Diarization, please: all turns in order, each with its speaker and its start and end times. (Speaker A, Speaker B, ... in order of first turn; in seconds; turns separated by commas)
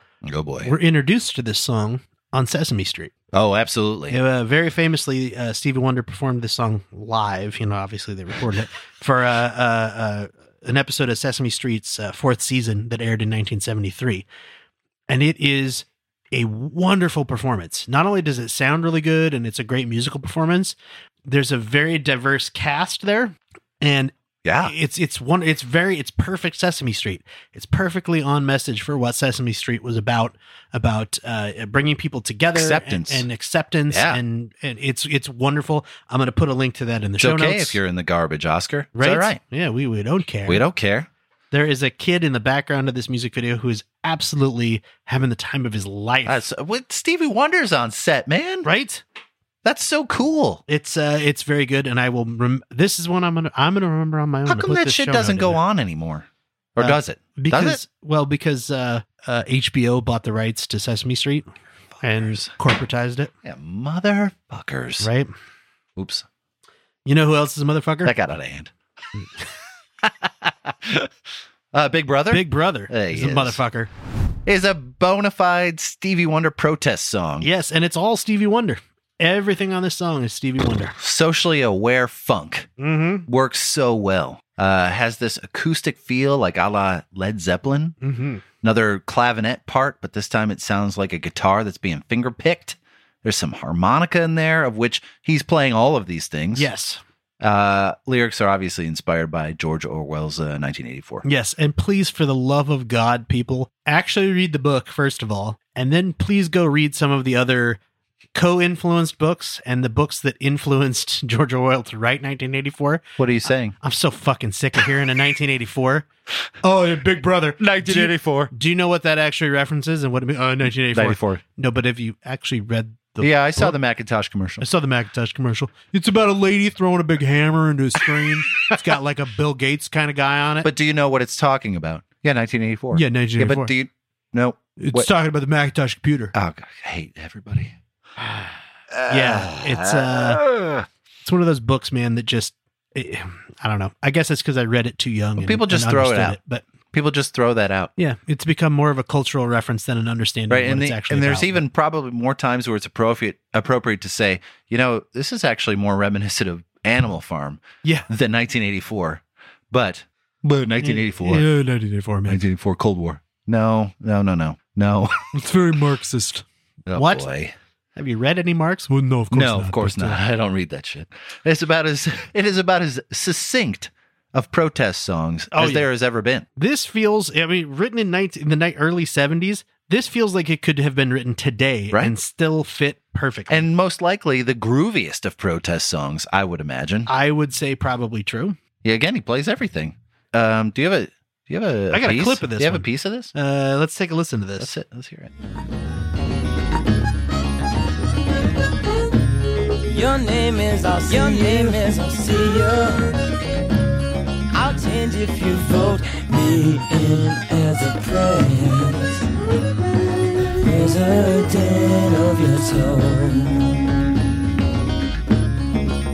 Speaker A: 0.2-0.7, Speaker B: 0.6-3.1, Speaker A: 3.3-4.2, Speaker B: 4.1-14.3, Speaker B: 15.1-37.8, Speaker A: 24.4-24.7, Speaker A: 32.5-33.3, Speaker A: 33.9-34.2, Speaker A: 37.2-39.4, Speaker B: 39.0-40.6, Speaker A: 40.5-41.1, Speaker B: 41.5-46.4, Speaker A: 46.2-48.7, Speaker B: 48.6-49.0, Speaker A: 49.6-50.6, Speaker B: 50.7-55.6, Speaker A: 54.5-57.8, Speaker B: 56.8-61.5, Speaker B: 62.0-63.3, Speaker A: 62.1-62.5, Speaker A: 63.4-65.1, Speaker B: 65.0-65.3, Speaker A: 66.0-66.3, Speaker B: 67.1-68.1, Speaker A: 68.0-68.7, Speaker A: 70.0-71.1, Speaker A: 71.7-73.6, Speaker B: 72.3-73.9, Speaker A: 74.5-77.5, Speaker B: 77.4-81.0, Speaker A: 81.0-82.7, Speaker B: 82.8-83.3, Speaker A: 83.3-88.0, Speaker B: 88.0-88.4, Speaker A: 88.6-96.7, Speaker B: 96.5-97.0, Speaker A: 97.4-101.2, Speaker B: 101.2-107.8, Speaker B: 108.3-113.1, Speaker A: 113.2-113.8, Speaker B: 113.8-116.1, Speaker B: 116.6-123.8, Speaker A: 117.6-118.5, Speaker A: 120.9-121.4, Speaker A: 123.2-124.7, Speaker B: 124.6-130.7, Speaker A: 130.6-135.1, Speaker B: 132.9-133.7, Speaker B: 134.8-136.3, Speaker A: 136.3-137.7, Speaker A: 138.9-140.9, Speaker B: 139.1-140.4, Speaker B: 141.2-146.6, Speaker A: 145.4-146.4, Speaker A: 146.9-147.9, Speaker B: 148.0-151.6, Speaker A: 150.5-161.5, Speaker B: 160.8-162.4, Speaker A: 162.3-165.3, Speaker B: 165.3-167.3, Speaker A: 166.9-167.6, Speaker B: 168.0-170.2, Speaker A: 169.3-176.5, Speaker B: 175.5-175.9, Speaker B: 176.6-183.7, Speaker A: 183.5-187.1, Speaker B: 187.1-188.6, Speaker A: 188.8-193.3, Speaker B: 191.9-194.7, Speaker A: 194.6-195.3, Speaker C: 199.8-203.2, Speaker C: 204.5-209.3, Speaker C: 210.4-214.1